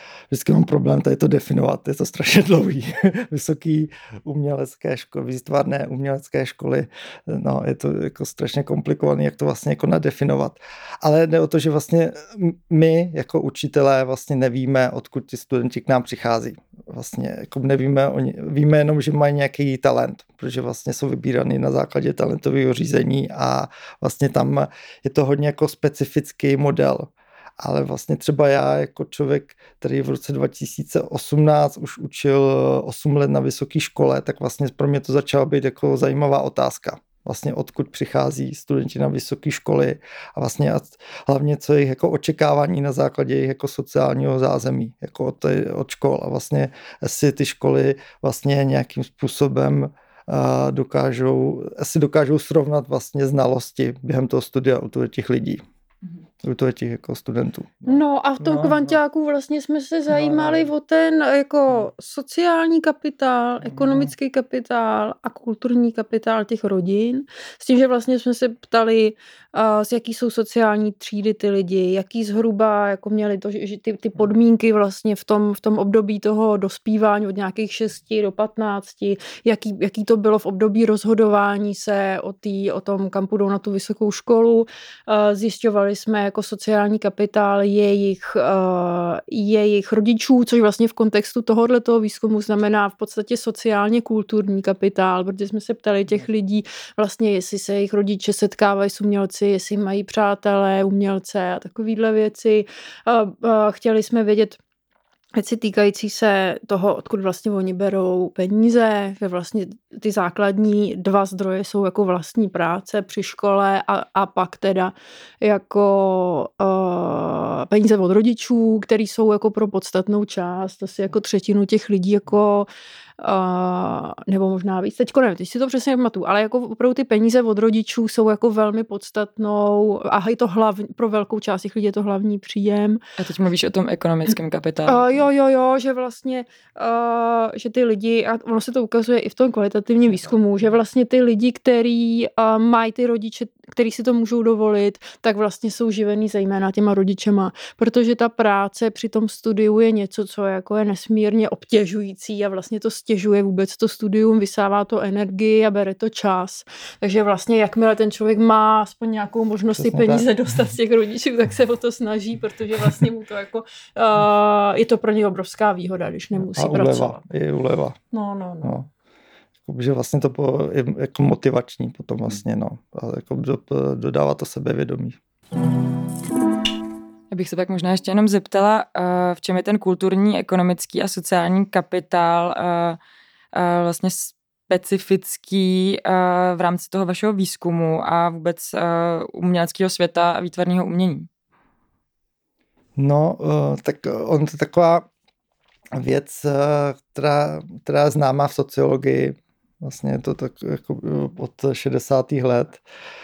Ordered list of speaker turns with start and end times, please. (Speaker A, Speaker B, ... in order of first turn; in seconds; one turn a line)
Speaker A: 0.3-55.6
Speaker A: 56.4-59.0
Speaker B: 57.9-104.6
Speaker A: 60.1-60.7
Speaker A: 63.6-64.1
Speaker B: 105.3-122.7
Speaker B: 123.2-133.0
Speaker C: 133.2-135.1
Speaker B: 134.8-167.2
Speaker A: 159.8-160.3
Speaker A: 166.4-168.0
Speaker B: 168.1-168.8
Speaker A: 168.6-168.9
Speaker A: 169.7-175.2
Speaker C: 177.3-183.0
Speaker C: 183.5-191.3
Speaker A: 193.0-195.1
Speaker A: 195.9-202.8